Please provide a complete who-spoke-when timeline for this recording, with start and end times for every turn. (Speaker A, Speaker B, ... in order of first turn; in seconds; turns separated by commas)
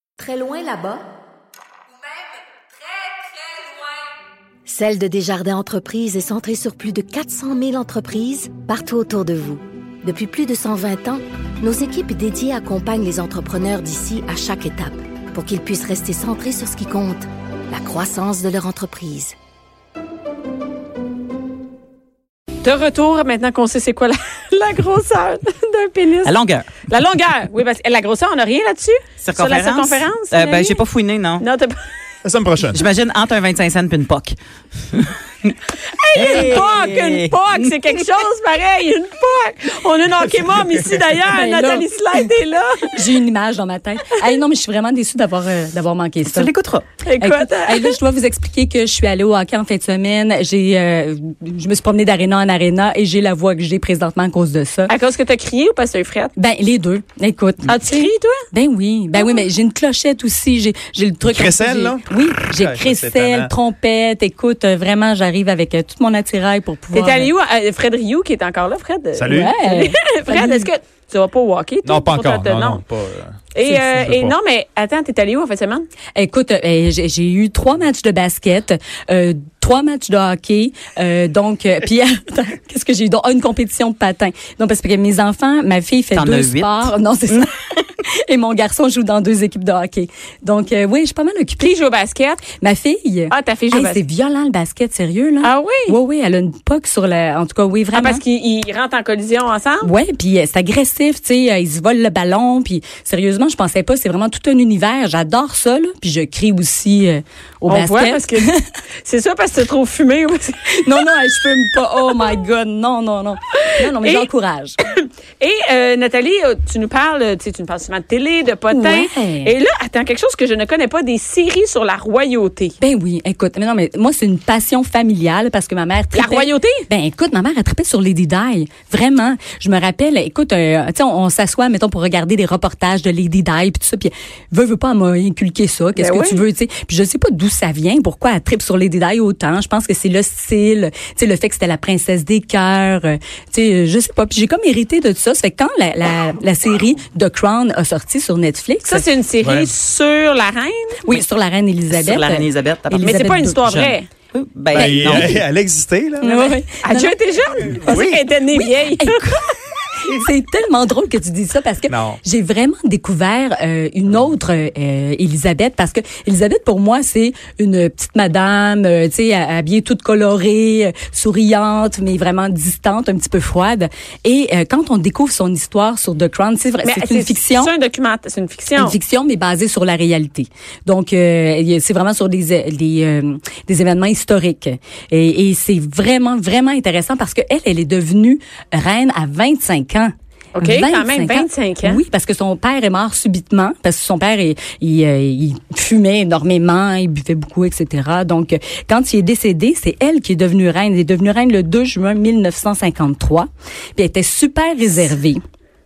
Speaker A: 0.2-0.6, Speaker B: 0.2-1.0, Speaker B: 4.7-19.4, Speaker C: 22.6-26.3, Speaker D: 26.2-26.9, Speaker C: 26.9-30.8, Speaker D: 29.2-31.5, Speaker C: 31.4-31.8, Speaker E: 32.2-32.9, Speaker D: 32.7-34.4, Speaker D: 34.9-35.5, Speaker C: 35.9-43.0, Speaker D: 36.1-37.7, Speaker A: 41.3-42.2, Speaker A: 42.9-46.5, Speaker D: 46.3-46.9, Speaker C: 47.0-48.0, Speaker A: 47.2-54.9, Speaker C: 54.9-56.3, Speaker A: 56.4-57.8, Speaker C: 57.6-58.4, Speaker A: 58.5-67.3, Speaker C: 59.2-59.4, Speaker E: 61.2-63.5, Speaker C: 66.9-72.8, Speaker E: 69.2-69.5, Speaker A: 69.3-70.7, Speaker E: 71.8-74.4, Speaker C: 73.5-75.8, Speaker A: 76.2-91.7, Speaker D: 86.2-86.9, Speaker C: 91.6-92.5, Speaker A: 92.6-98.2, Speaker C: 93.3-94.0, Speaker C: 95.4-96.0, Speaker C: 97.9-99.9, Speaker A: 99.8-108.7, Speaker C: 107.7-108.5, Speaker C: 109.0-111.0, Speaker A: 110.7-114.8, Speaker C: 114.0-114.2, Speaker C: 114.9-122.8, Speaker A: 118.7-119.5, Speaker A: 122.8-149.0, Speaker C: 126.1-126.8, Speaker C: 136.0-136.4, Speaker C: 148.9-151.1, Speaker E: 149.4-149.7, Speaker A: 151.0-153.7, Speaker D: 151.9-155.4, Speaker C: 153.0-154.1, Speaker E: 154.7-156.3, Speaker A: 154.8-155.4, Speaker A: 156.2-157.2, Speaker C: 156.2-159.2, Speaker E: 157.8-158.2, Speaker A: 158.5-177.7, Speaker E: 161.9-162.2, Speaker C: 176.8-179.0, Speaker A: 178.8-205.4, Speaker C: 190.6-192.0